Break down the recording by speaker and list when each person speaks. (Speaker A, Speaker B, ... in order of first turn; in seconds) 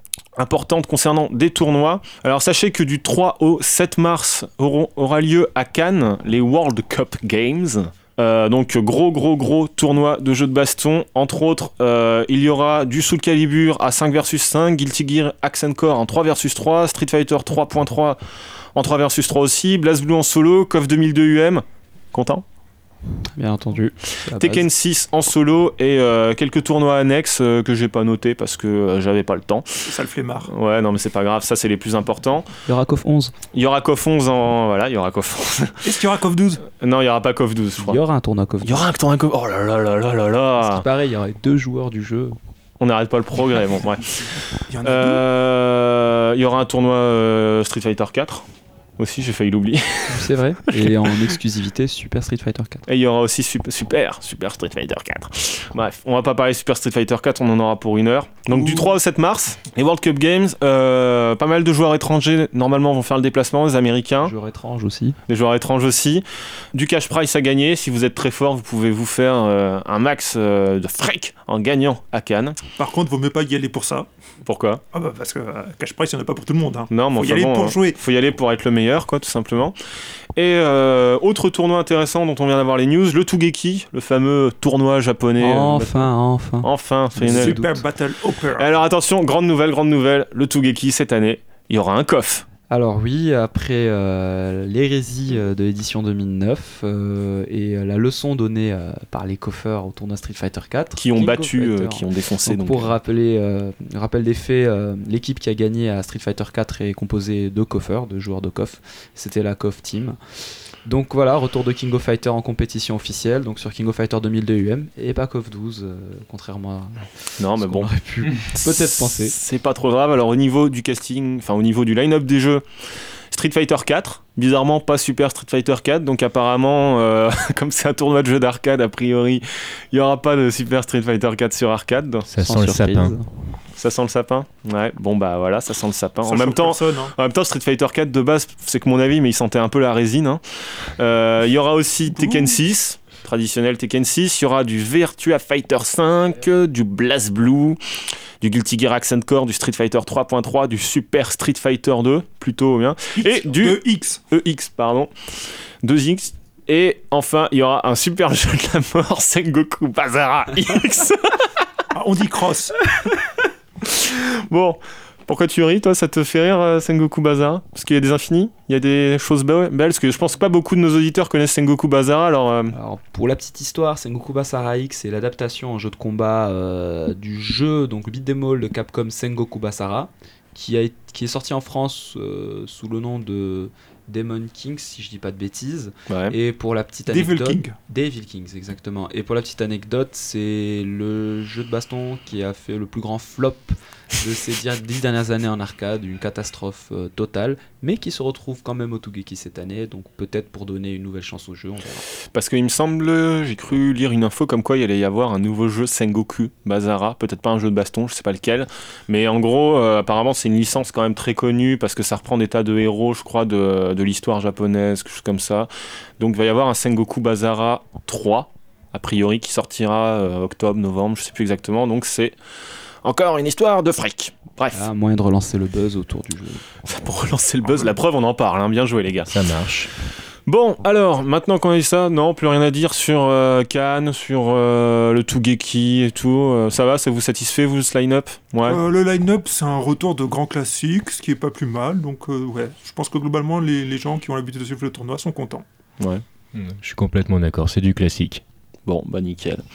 Speaker A: 0.4-18.2, 18.8-22.4, 24.2-29.9, 30.5-32.5, 33.5-36.0, 36.6-38.0, 38.6-40.9, 42.8-48.5, 49.0-51.1, 52.9-64.3, 65.3-72.6, 74.4-74.8, 76.9-79.8, 80.4-86.1, 86.6-87.7, 88.6-92.5, 101.0-102.9, 117.4-122.6, 123.3-132.3, 133.8-140.4, 141.0-147.8, 148.4-155.1, 155.8-161.5, 162.9-172.8, 186.1-186.4, 202.3-222.3, 223.0-224.9, 226.8-229.4, 230.5-238.8, 248.9-249.6
Speaker B: 23.4-24.7, 32.7-33.3, 37.8-38.9, 40.6-42.4, 50.1-52.9, 58.5-59.0, 64.2-65.2, 85.4-87.8, 92.7-110.2, 110.8-119.3, 132.4-133.2, 172.7-202.1, 224.7-226.7
Speaker C: 29.9-30.5, 35.8-36.6, 44.7-45.2, 72.8-74.1, 74.9-78.0, 87.2-88.7, 136.2-137.2, 142.2-142.6, 153.2-154.2, 161.9-162.7, 187.1-187.8, 238.7-245.7
Speaker D: 132.3-133.2, 229.3-229.9, 246.5-248.4